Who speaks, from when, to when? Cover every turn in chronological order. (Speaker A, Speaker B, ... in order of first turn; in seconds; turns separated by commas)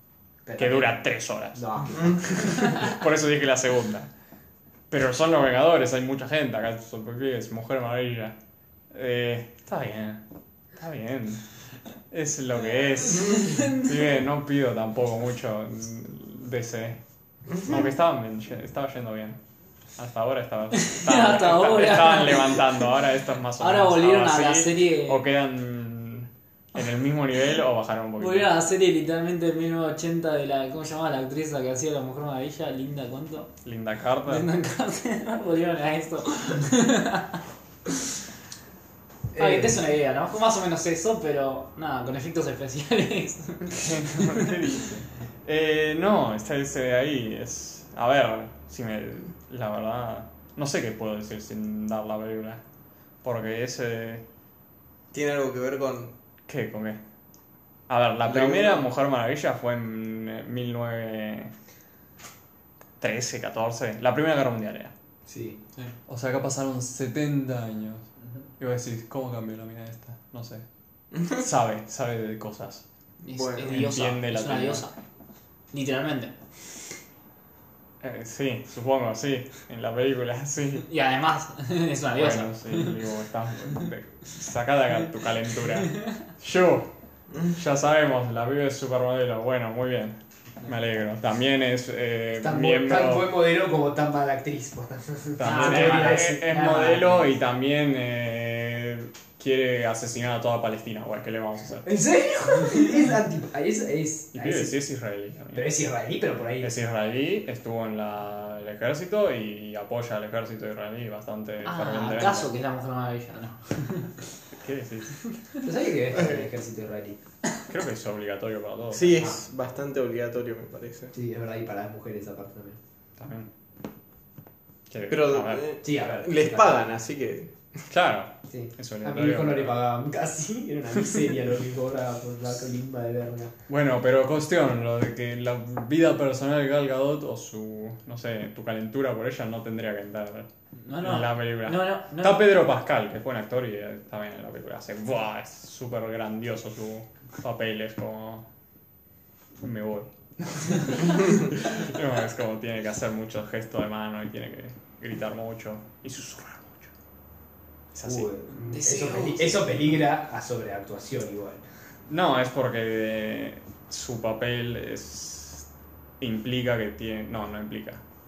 Speaker A: 0.4-1.0, Speaker B: 0.6-4.1, Speaker A: 1.5-2.7, Speaker B: 4.9-8.4, Speaker B: 8.9-10.2, Speaker B: 10.7-11.4, Speaker B: 12.1-17.0, Speaker C: 13.1-13.8, Speaker B: 17.5-19.4, Speaker B: 20.0-28.5, Speaker C: 20.7-23.0, Speaker C: 23.6-25.2, Speaker C: 28.2-33.5, Speaker B: 33.6-34.5, Speaker C: 34.2-37.4, Speaker A: 39.3-39.8, Speaker C: 39.4-44.6, Speaker B: 43.7-52.6, Speaker B: 53.2-54.2, Speaker D: 55.1-56.1, Speaker B: 56.5-57.0, Speaker B: 57.9-61.5, Speaker D: 58.2-58.8, Speaker B: 63.0-64.9, Speaker A: 65.3-65.6, Speaker B: 66.1-70.6, Speaker B: 71.2-72.8, Speaker C: 73.2-74.9, Speaker D: 73.3-73.9, Speaker B: 73.6-74.9, Speaker C: 75.7-76.4, Speaker B: 78.0-80.9, Speaker C: 80.8-83.0, Speaker B: 82.2-86.9, Speaker C: 85.7-86.1, Speaker B: 87.4-93.3, Speaker A: 92.4-97.2, Speaker B: 95.4-101.9, Speaker C: 95.4-97.2, Speaker A: 101.8-104.8, Speaker B: 104.3-105.7, Speaker A: 105.5-106.7, Speaker B: 106.6-112.5, Speaker C: 111.6-114.2, Speaker B: 114.5-115.2, Speaker A: 115.6-117.2, Speaker D: 116.1-116.4, Speaker B: 117.7-119.3, Speaker D: 118.9-121.1, Speaker A: 121.1-122.8, Speaker B: 123.2-123.5, Speaker B: 124.9-125.8, Speaker D: 125.1-127.5, Speaker A: 125.8-126.9, Speaker B: 127.9-129.8, Speaker A: 128.5-133.5, Speaker B: 133.7-140.5, Speaker C: 140.8-142.4, Speaker B: 141.0-148.4, Speaker B: 149.6-156.9, Speaker B: 157.9-158.3, Speaker A: 158.0-161.6, Speaker C: 158.6-159.7, Speaker B: 162.1-165.7, Speaker B: 166.2-168.0